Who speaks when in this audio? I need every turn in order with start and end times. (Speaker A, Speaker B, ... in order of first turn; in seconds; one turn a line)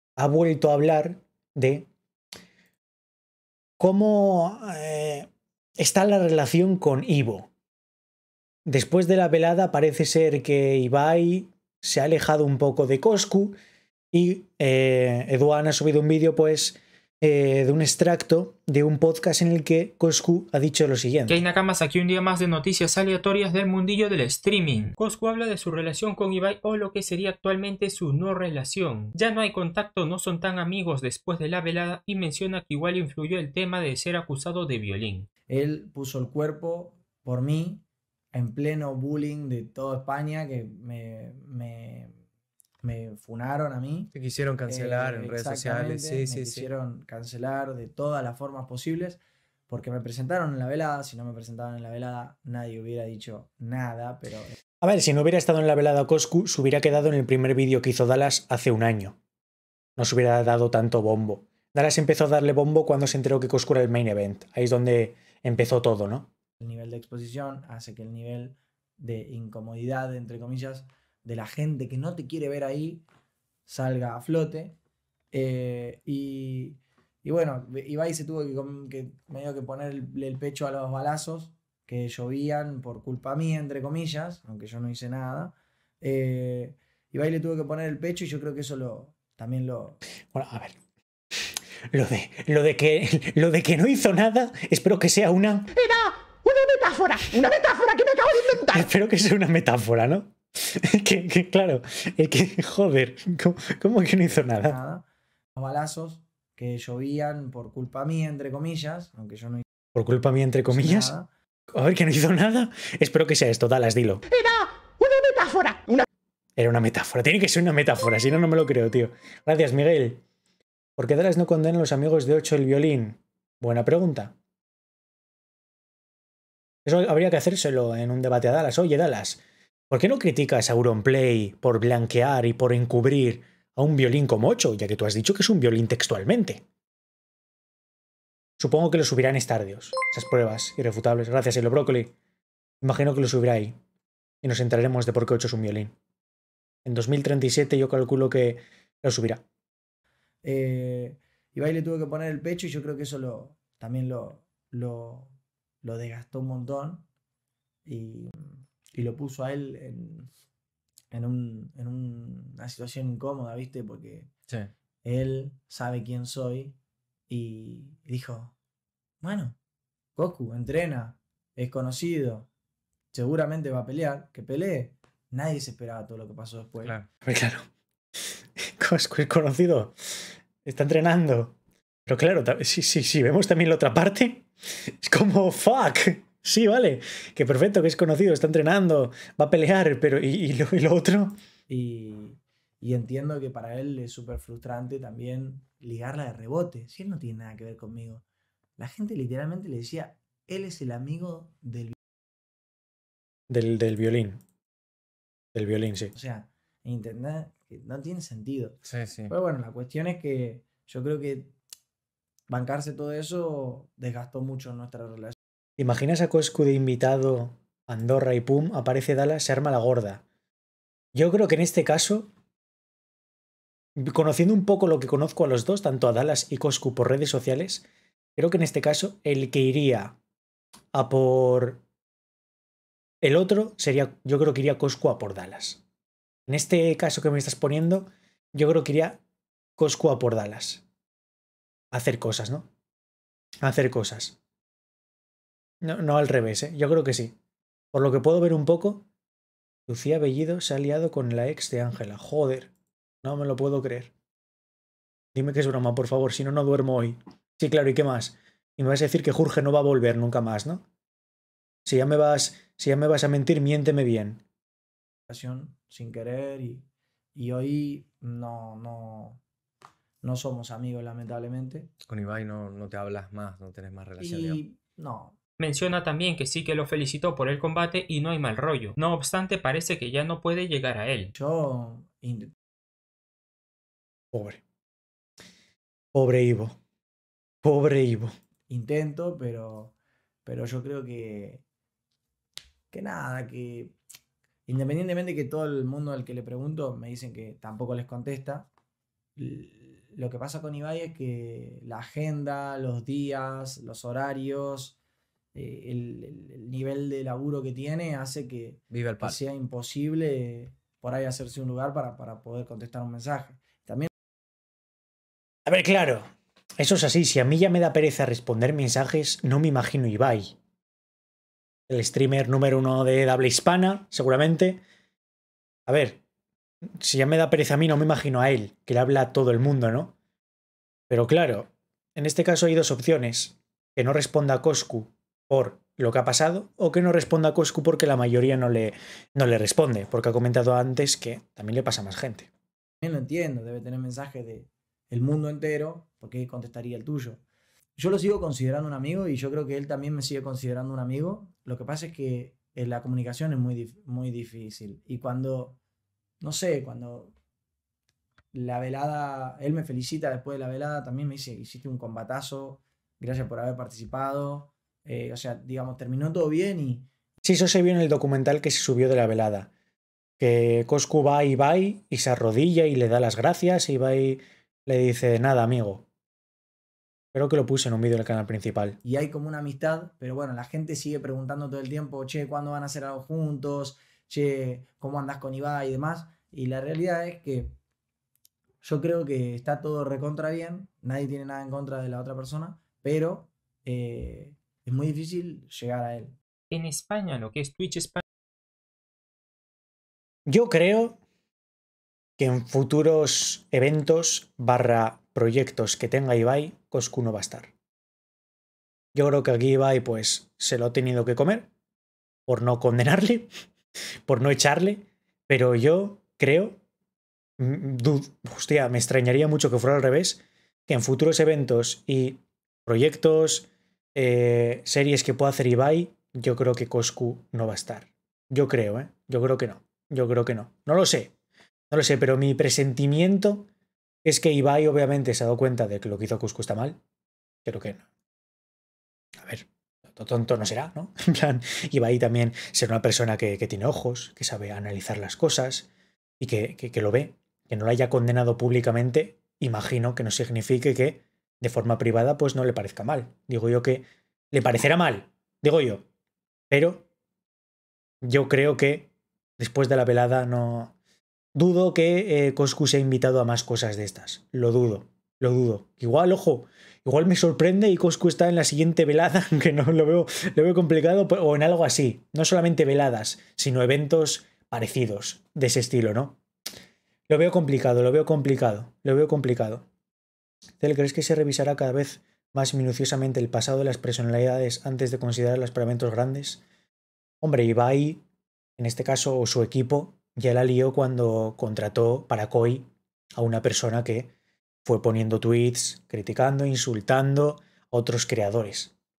Speaker A: 0.2-1.9
Speaker A: 3.8-5.3
Speaker A: 5.8-7.5
Speaker A: 8.7-13.6
Speaker A: 14.1-21.4
Speaker B: 21.3-35.3
Speaker C: 35.5-42.2
Speaker C: 42.8-44.1
Speaker D: 44.1-46.7
Speaker C: 44.7-54.5
Speaker A: 54.8-59.2
Speaker A: 60.0-66.3
Speaker C: 66.6-73.0
Speaker C: 73.7-74.8
Speaker C: 75.3-90.0
Speaker A: 90.3-90.8
Speaker A: 91.9-95.8
Speaker E: 95.7-98.8
Speaker A: 98.6-104.8
Speaker C: 104.6-109.6
Speaker A: 109.9-111.1
Speaker C: 110.7-111.3
Speaker A: 111.7-114.2
Speaker E: 114.3-116.0
Speaker A: 116.6-120.2
Speaker A: 121.0-124.3
Speaker A: 126.8-136.6
Speaker A: 138.6-142.1
Speaker A: 142.8-143.8
Speaker A: 144.4-145.9
Speaker A: 146.8-149.4
Speaker C: 150.4-157.1
Speaker C: 157.9-160.3
Speaker C: 161.1-164.3
Speaker C: 165.0-166.8
Speaker C: 167.3-168.5
Speaker C: 169.2-169.6
Speaker C: 170.2-172.5
Speaker C: 173.1-177.0
Speaker A: 177.2-177.7
Speaker A: 178.8-179.9
Speaker A: 180.6-184.5
Speaker A: 185.0-191.4
Speaker C: 191.7-198.2
Speaker C: 198.8-201.9
Speaker A: 203.5-204.4
Speaker A: 205.5-206.1
Speaker C: 206.1-211.6
Speaker D: 208.9-209.3
Speaker C: 212.5-215.4
Speaker A: 215.8-220.2
Speaker A: 221.1-222.3
Speaker A: 224.0-227.9
Speaker A: 228.4-230.2
Speaker A: 230.9-231.8
Speaker A: 233.2-235.8
Speaker A: 236.5-239.2
Speaker A: 239.8-240.8
Speaker A: 241.9-242.7
Speaker A: 243.6-244.4
Speaker A: 245.8-247.4
Speaker A: 247.9-249.1
Speaker A: 249.9-252.7
Speaker A: 253.2-254.1
Speaker A: 255.3-260.8
Speaker A: 261.9-264.4
Speaker C: 265.3-269.4
Speaker C: 270.2-271.9
Speaker D: 272.1-274.6
Speaker C: 274.2-275.4
Speaker B: 275.6-281.3
Speaker C: 281.3-282.5
Speaker A: 284.3-284.6
Speaker A: 286.1-286.8
Speaker A: 287.6-288.3
Speaker C: 288.7-291.6
Speaker C: 292.9-294.0
Speaker C: 294.7-298.7
Speaker C: 299.4-305.0
Speaker C: 305.5-314.1
Speaker D: 308.9-309.4
Speaker A: 315.6-316.3
Speaker A: 316.8-320.6
Speaker A: 321.9-324.8
Speaker A: 325.9-326.2
Speaker A: 327.0-330.1
Speaker A: 331.1-342.5
Speaker C: 343.0-347.4
Speaker C: 348.0-355.8
Speaker C: 356.4-357.3
Speaker C: 358.5-367.1
Speaker A: 367.4-369.7
Speaker A: 370.4-376.0
Speaker A: 377.3-379.0
Speaker C: 379.0-387.8
Speaker C: 388.8-396.4
Speaker B: 396.7-398.2
Speaker A: 400.4-401.2
Speaker A: 402.4-407.7
Speaker A: 409.1-411.7
Speaker A: 412.5-413.5
Speaker A: 414.2-416.8
Speaker A: 417.6-431.3
Speaker A: 431.9-433.7
Speaker A: 434.2-437.0
Speaker A: 437.6-438.0
Speaker A: 439.4-445.9
Speaker A: 446.4-456.1
Speaker A: 456.7-457.1
Speaker A: 458.2-460.9
Speaker A: 461.5-476.4
Speaker A: 477.3-479.8
Speaker A: 480.8-486.6
Speaker A: 487.4-488.2
Speaker A: 488.8-494.3
Speaker A: 494.8-498.9